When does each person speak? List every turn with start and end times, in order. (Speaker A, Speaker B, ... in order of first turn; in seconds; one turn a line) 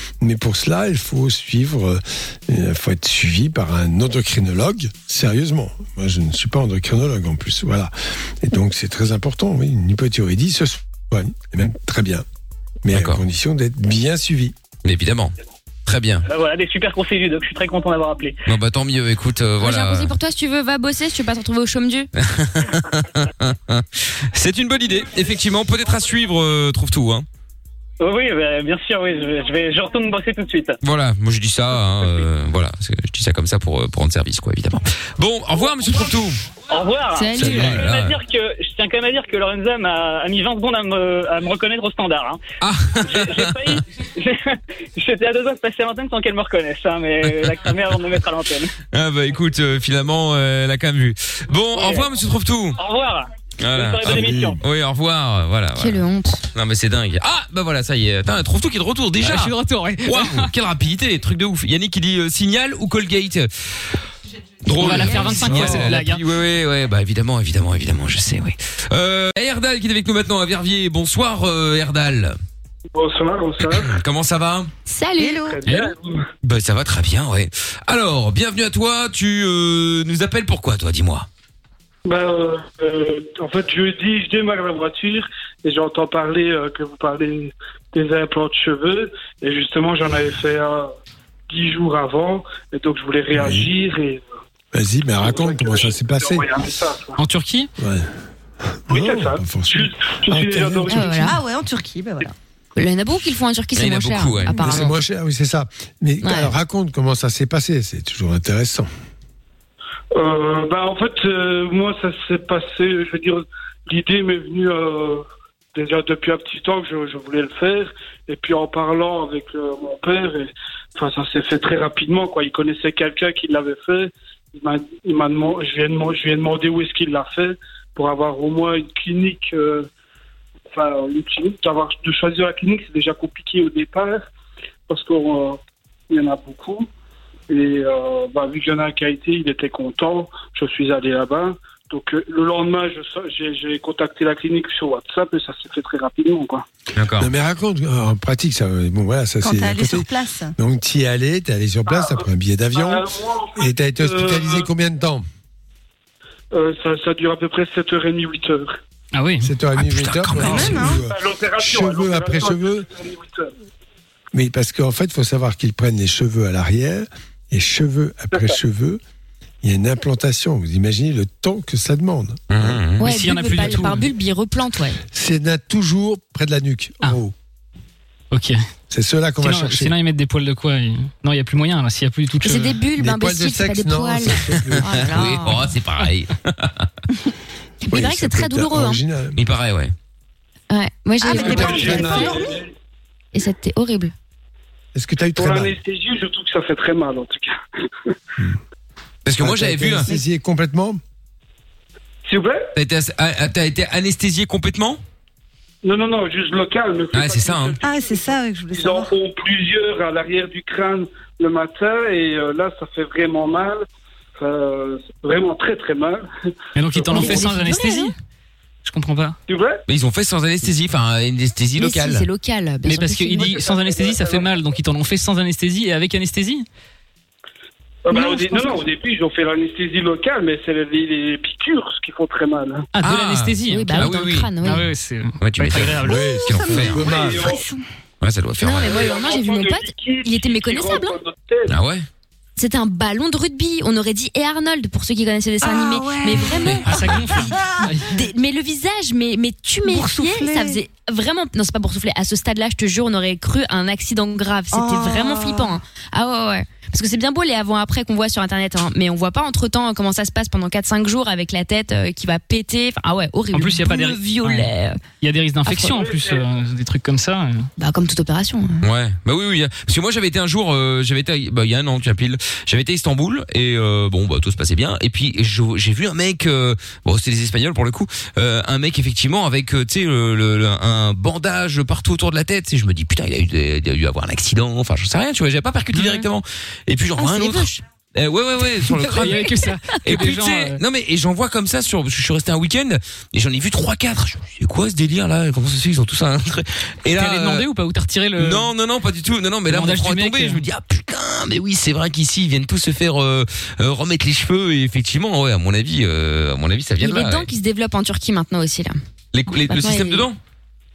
Speaker A: 0.2-12.2
Speaker A: 12.8-14.5
Speaker B: 12.9-13.2
Speaker B: 14.8-15.3
Speaker B: 15.8-16.2
Speaker C: 16.3-18.4
Speaker B: 18.5-20.1
Speaker D: 19.6-22.1
Speaker B: 22.2-27.2
Speaker C: 28.0-30.8
Speaker B: 30.8-36.4
Speaker C: 36.7-42.4
Speaker D: 37.1-37.8
Speaker A: 37.4-37.8
Speaker B: 37.4-38.1
Speaker B: 42.6-43.5
Speaker C: 43.0-48.7
Speaker B: 48.9-52.8
Speaker C: 51.7-52.1
Speaker C: 52.8-54.6
Speaker B: 53.6-56.0
Speaker D: 55.8-56.4
Speaker B: 56.5-63.9
Speaker E: 59.2-60.5
Speaker B: 64.6-72.3
Speaker E: 64.8-66.2
Speaker F: 72.9-74.0
Speaker B: 73.6-74.7
Speaker D: 74.9-75.5
Speaker G: 75.2-75.6
Speaker F: 75.5-76.3
Speaker B: 75.7-81.3
Speaker F: 82.0-90.9
Speaker F: 91.5-94.2
Speaker A: 93.3-93.7
Speaker A: 94.7-96.5
Speaker F: 95.2-97.2
Speaker E: 97.2-97.7
Speaker A: 97.8-101.1
Speaker F: 98.9-101.3
Speaker D: 100.9-101.4
Speaker G: 100.9-102.3
Speaker D: 102.8-105.0
Speaker B: 103.7-104.6
Speaker A: 104.5-108.9
Speaker D: 106.2-106.5
Speaker F: 110.2-129.9
Speaker F: 130.7-134.2
Speaker F: 134.9-136.9
Speaker F: 137.5-146.6
Speaker B: 146.9-147.3
Speaker A: 147.2-155.2
Speaker G: 149.4-150.5
Speaker F: 151.8-154.7
Speaker F: 156.5-158.8
Speaker E: 159.1-159.5
Speaker A: 159.4-162.9
Speaker G: 160.2-161.0
Speaker F: 160.4-163.5
Speaker A: 164.3-169.0
Speaker F: 168.3-168.6
Speaker A: 169.6-172.8
Speaker B: 172.5-173.0
Speaker E: 173.0-174.1
Speaker D: 173.0-175.0
Speaker A: 175.1-177.3
Speaker E: 178.3-178.6
Speaker A: 178.9-179.9
Speaker E: 179.4-182.8
Speaker D: 182.4-185.7
Speaker A: 182.9-185.5
Speaker B: 184.9-186.9
Speaker D: 187.8-189.0
Speaker A: 187.9-189.4
Speaker B: 189.3-189.9
Speaker D: 190.7-192.5
Speaker G: 191.2-192.6
Speaker F: 191.3-192.7
Speaker A: 191.5-192.2
Speaker D: 193.3-194.1
Speaker A: 194.9-195.8
Speaker F: 195.3-198.1
Speaker B: 199.2-200.1
Speaker A: 199.4-201.0
Speaker F: 202.2-202.7
Speaker B: 202.8-205.0
Speaker F: 205.8-213.8
Speaker B: 207.1-207.8
Speaker G: 207.8-209.1
Speaker F: 214.4-216.3
Speaker E: 216.7-218.1
Speaker F: 216.9-217.2
Speaker D: 217.1-218.1
Speaker E: 218.8-219.3
Speaker F: 219.5-219.8
Speaker B: 219.9-222.3
Speaker D: 221.8-223.7
Speaker E: 222.8-226.7
Speaker F: 223.6-224.5
Speaker F: 228.0-232.9
Speaker D: 228.1-228.8
Speaker E: 232.9-236.3
Speaker B: 233.0-234.5
Speaker D: 233.7-234.9
Speaker B: 235.4-237.1
Speaker G: 236.0-237.8
Speaker A: 236.0-237.6
Speaker F: 237.1-237.6
Speaker B: 238.2-238.9
Speaker D: 238.6-241.2
Speaker F: 238.7-241.8
Speaker B: 241.7-242.0
Speaker D: 242.6-247.5
Speaker G: 245.6-248.0
Speaker E: 246.8-248.2
Speaker D: 248.0-265.0
Speaker G: 249.8-250.8
Speaker G: 254.7-255.8
Speaker E: 263.5-264.7
Speaker E: 265.2-267.7
Speaker D: 265.6-266.0
Speaker F: 265.9-266.4
Speaker D: 267.8-268.9
Speaker B: 268.8-297.6
Speaker D: 285.9-286.3
Speaker D: 287.2-287.7
Speaker E: 288.9-290.8
Speaker E: 297.1-298.7
Speaker B: 298.4-307.5
Speaker E: 299.7-300.6
Speaker D: 307.0-309.0
Speaker B: 309.3-310.4
Speaker D: 309.7-310.3